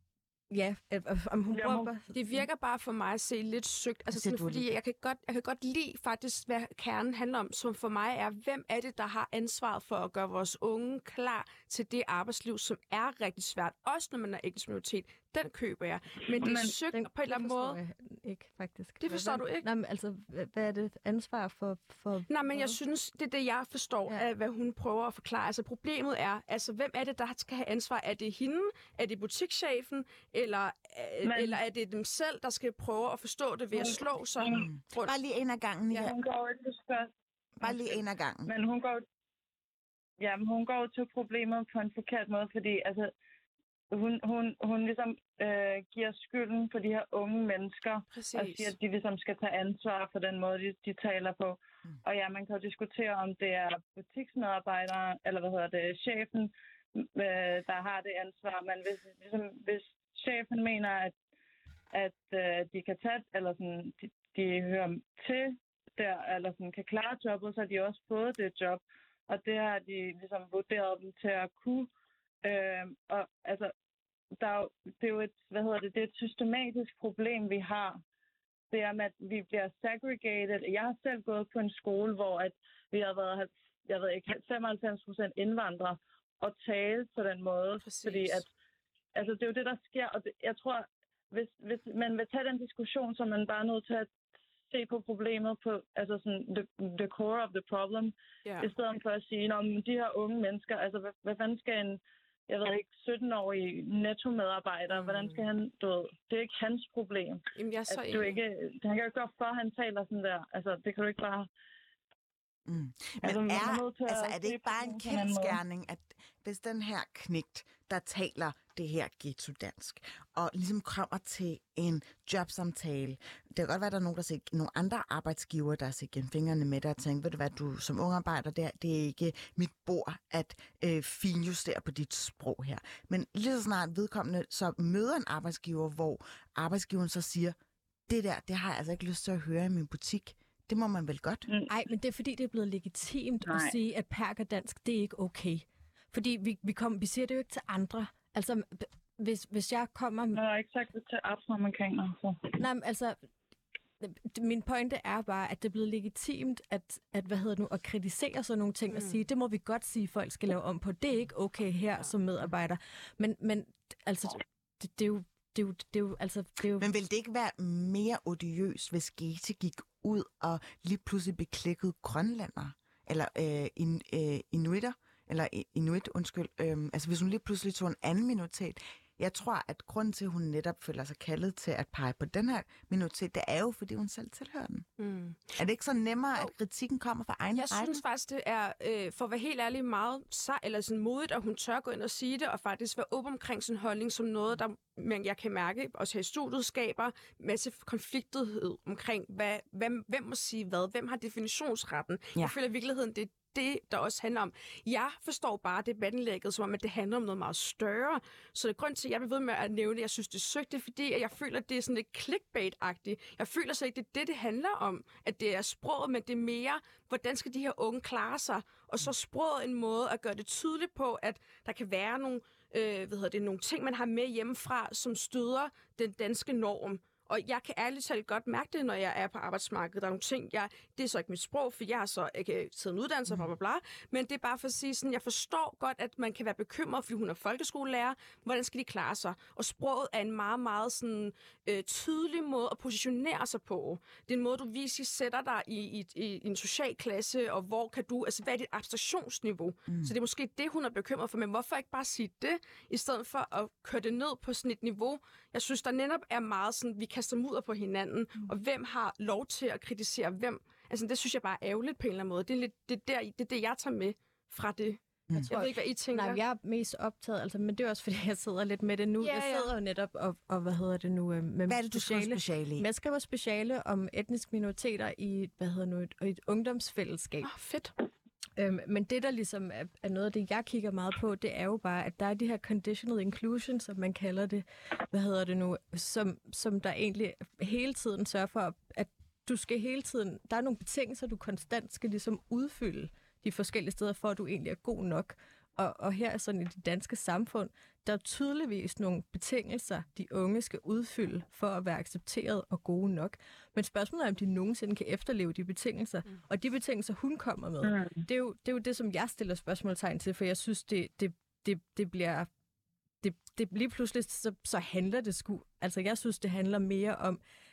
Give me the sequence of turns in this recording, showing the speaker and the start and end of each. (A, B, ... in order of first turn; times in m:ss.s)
0:00.5-0:02.5 A
0:01.5-0:01.9 B
0:02.1-0:17.8 C
0:04.1-0:04.7 D
0:16.3-0:16.8 B
0:16.9-0:22.8 A
0:19.0-0:19.6 C
0:22.3-0:35.1 C
0:31.2-0:31.6 B
0:33.7-0:34.7 B
0:34.5-0:36.1 D
0:35.9-0:37.1 B
0:37.6-0:38.5 D
0:38.4-0:39.0 B
0:40.2-0:43.1 B
0:43.9-1:01.1 B
0:48.1-0:48.7 C
1:01.9-1:11.9 B
1:12.4-1:13.7 B
1:14.4-1:18.0 B
1:18.7-1:28.5 B
1:27.8-1:28.4 C
1:29.1-1:34.1 B
1:34.7-1:51.5 B
1:38.4-1:38.7 C
1:44.9-1:45.5 C
1:47.6-1:48.4 C
1:52.7-2:17.6 D
1:53.2-1:55.6 B
2:18.1-2:21.5 D
2:21.7-2:30.4 A
2:23.4-2:23.7 B
2:30.3-2:32.6 B
2:32.6-2:33.2 A
2:34.0-2:46.9 A
2:38.9-2:39.2 C
2:46.8-3:04.8 D
3:05.0-3:05.6 C
3:05.6-3:08.0 D
3:07.5-4:26.4 C
4:09.9-4:10.1 D
4:25.5-4:37.5 A
4:29.2-4:29.7 C
4:31.7-4:32.8 D
4:37.4-4:37.9 C
4:38.6-5:12.5 A
5:07.8-5:08.2 B
5:13.2-5:17.4 A